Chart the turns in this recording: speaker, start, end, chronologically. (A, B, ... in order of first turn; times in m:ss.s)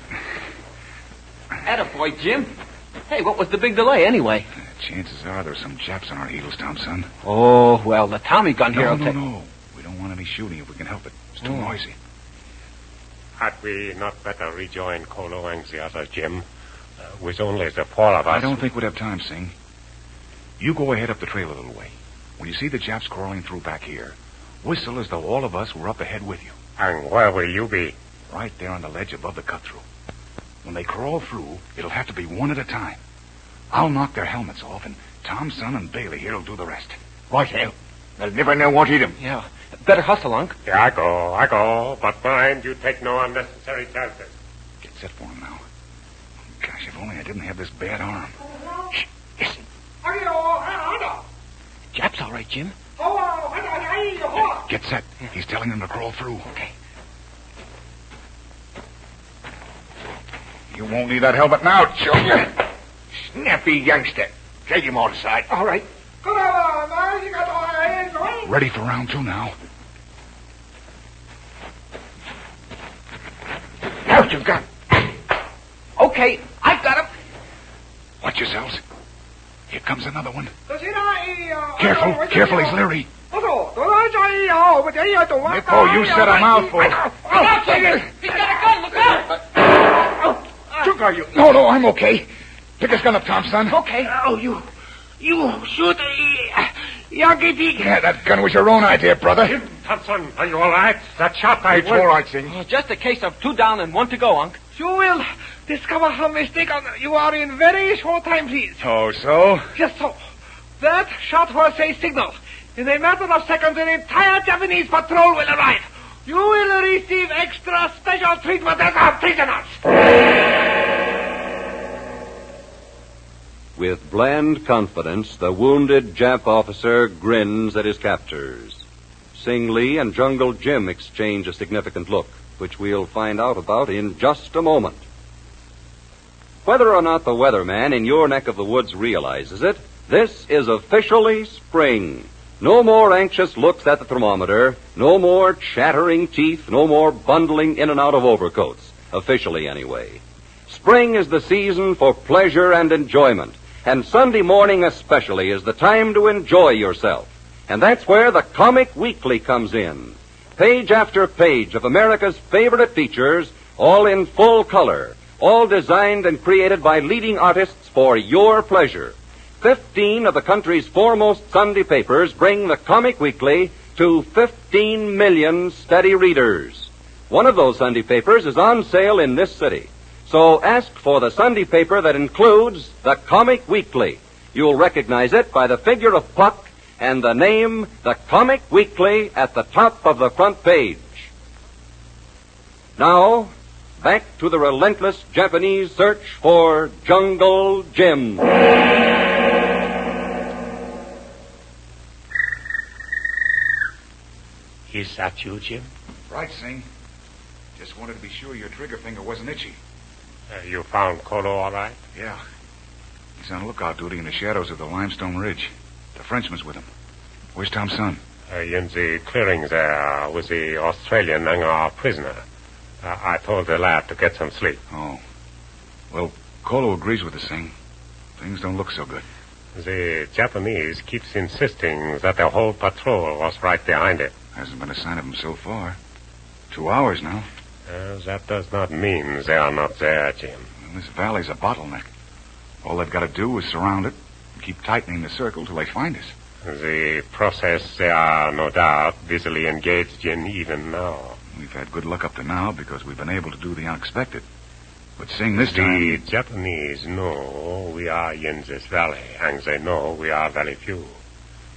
0:01.6-0:04.5 A
0:04.6-0:07.1 B
0:07.2-0:09.2 A
0:08.7-0:12.0 B
0:13.4-0:16.4 C
0:17.1-0:18.6 C
0:18.2-0:19.5 B
0:20.6-0:26.5 B
0:26.8-0:27.9 C
0:28.3-0:29.8 B
0:30.6-0:33.0 B
0:33.7-0:37.0 B
0:37.3-0:39.2 D
0:39.2-0:40.6 A
0:40.6-0:44.3 C
0:44.8-0:45.6 B
0:46.6-0:48.3 B
0:50.0-0:51.2 E
0:51.9-0:52.7 A
0:53.0-0:54.6 E
0:54.4-0:56.5 B
1:00.7-1:02.5 B
1:03.3-1:05.5 D
1:05.5-1:08.5 E
1:08.4-1:09.5 B
1:14.0-1:14.6 D
1:16.0-1:17.1 A
1:18.2-1:18.8 B
1:19.7-1:20.5 B
1:20.7-1:22.8 E
1:21.8-1:23.1 B
1:23.3-1:26.7 E
1:25.4-1:27.0 B
1:27.3-1:29.6 A
1:30.8-1:31.3 D
1:31.2-1:32.2 B
1:32.8-1:33.8 B
1:33.7-1:34.2 A
1:34.2-1:34.6 D
1:35.2-1:37.2 D
1:37.8-1:39.6 B
1:39.4-1:42.1 C
1:41.7-1:42.6 D
1:42.5-1:44.6 A
1:44.8-1:48.8 E
1:48.8-1:49.6 B
1:49.7-1:50.2 E
1:50.8-1:59.8 E
2:03.8-2:08.8 F
2:09.3-2:15.0 F
2:16.6-3:11.3 F
3:13.0-3:18.4 F
3:24.9-3:25.9 C
3:26.3-3:26.9 B
3:27.8-3:29.8 B
3:30.5-3:32.0 C
3:33.4-3:36.9 B
3:37.5-3:38.2 B
3:38.5-3:42.4 C
3:43.0-3:44.8 C
3:44.9-3:45.2 B
3:46.1-3:47.7 B
3:48.4-3:49.2 B
3:49.7-3:54.3 C
3:54.5-3:56.0 B
3:56.7-3:57.4 B
3:57.9-4:00.7 C
4:00.8-4:02.0 B
4:02.8-4:06.3 B
4:06.6-4:11.4 C
4:11.5-4:14.4 B
4:15.2-4:16.2 B
4:15.5-4:21.2 C